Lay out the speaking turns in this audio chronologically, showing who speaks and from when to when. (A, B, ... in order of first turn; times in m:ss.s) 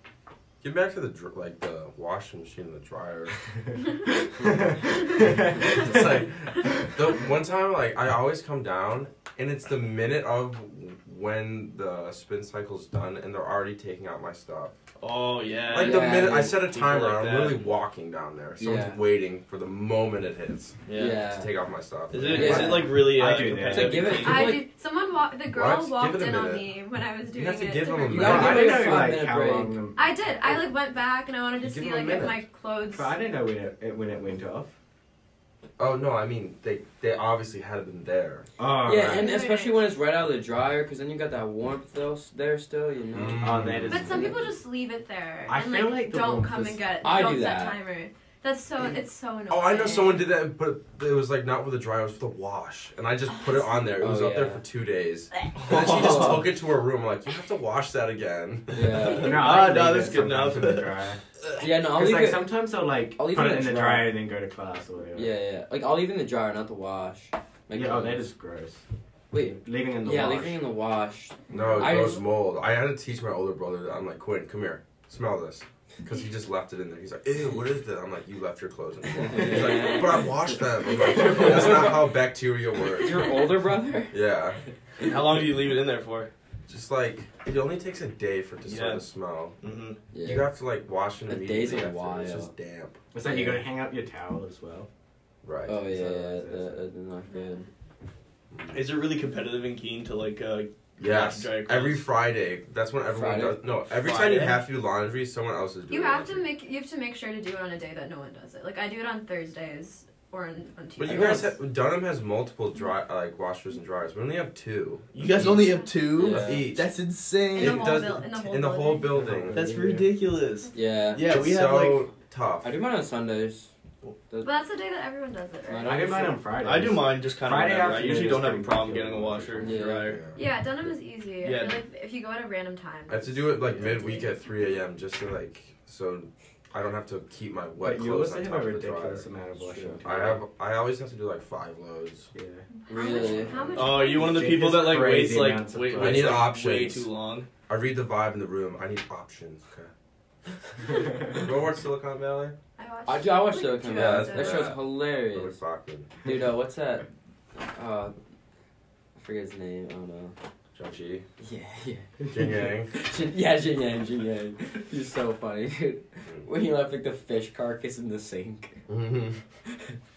0:00.6-0:03.4 A
0:04.4-0:06.0 B
0:04.4-0:14.7 A
0:15.0-0:17.7 C
0:15.7-0:22.9 A
0:15.7-0:16.6 D
0:18.6-0:19.0 D
0:20.8-0:21.2 C
0:20.9-0:21.5 D
0:22.1-0:24.6 C
0:22.2-0:23.0 D
0:22.4-0:24.3 B
0:23.5-0:24.6 D
0:24.1-0:28.9 E
0:25.5-0:26.6 A
0:27.3-0:29.0 A
0:28.1-0:29.8 D
0:28.1-0:30.5 B
0:30.0-0:33.1 E
0:31.6-0:32.4 A
0:32.9-0:34.7 B
0:35.8-0:38.5 A
0:38.6-0:39.2 B
0:38.8-0:44.5 D
0:39.1-0:39.8 E
0:43.1-0:44.3 A
0:43.4-0:44.4 B
0:43.9-0:50.3 E
0:45.5-0:46.8 B
0:47.0-0:47.8 D
0:49.5-0:59.1 A
0:54.0-0:54.6 D
0:55.6-0:56.5 C
0:55.7-0:56.4 D
0:58.7-0:59.5 D
0:59.1-1:01.2 B
0:59.2-1:01.0 C
1:01.6-1:02.5 D
1:01.8-1:05.3 B
1:03.2-1:04.2 D
1:05.1-1:08.3 D
1:07.7-1:10.6 B
1:09.3-1:12.2 D
1:11.5-1:23.4 A
1:19.2-1:22.1 D
1:22.9-1:24.2 D
1:24.1-1:24.6 A
1:25.0-1:26.3 C
1:26.7-1:29.6 A
1:28.6-1:29.0 C
1:29.6-1:30.0 C
1:30.1-1:30.5 D
1:30.2-1:33.0 A
1:31.3-1:32.5 D
1:33.1-1:34.9 B
1:33.2-1:33.6 D
1:35.4-1:35.9 A
1:35.6-1:37.6 D
1:35.9-1:36.8 B
1:37.3-1:37.6 E
1:38.5-1:38.8 A
1:38.7-1:42.0 C
1:41.0-1:46.5 A
1:43.1-1:43.6 D
1:43.9-1:44.6 C
1:45.9-1:51.5 E
1:51.0-1:56.9 A
1:51.0-1:51.5 D
1:55.1-1:57.9 C
1:55.5-1:55.9 E
1:56.1-1:56.7 D
1:57.5-1:59.2 E
1:57.6-1:59.6 A
1:59.1-2:00.1 B
1:59.5-2:02.0 C
2:00.7-2:01.3 D
2:01.2-2:02.7 A
2:02.6-2:03.7 D
2:04.4-2:06.0 E
2:05.7-2:06.4 D
2:05.8-2:09.8 B
2:06.6-2:10.2 C
2:09.6-2:10.2 D
2:10.0-2:10.5 A
2:10.3-2:14.3 E
2:11.4-2:11.8 C
2:13.1-2:19.3 A
2:17.8-2:20.4 B
2:19.6-2:20.0 D
2:20.0-2:22.3 A
2:22.3-2:22.6 B
2:22.7-2:24.6 E
2:22.9-2:23.8 D
2:23.4-2:23.9 A
2:23.8-2:27.5 C
2:24.0-2:26.4 B
2:26.0-2:27.1 A
2:27.7-2:29.9 A
2:31.2-2:32.5 A
2:32.8-2:34.8 E
2:33.0-2:35.6 D
2:33.8-2:36.1 A
2:36.2-2:38.1 D
2:39.2-2:40.4 D
2:40.7-2:41.2 A
2:41.4-2:42.1 D
2:42.3-2:42.9 A
2:42.9-2:48.8 D
2:48.9-2:49.4 A
2:49.6-2:50.0 D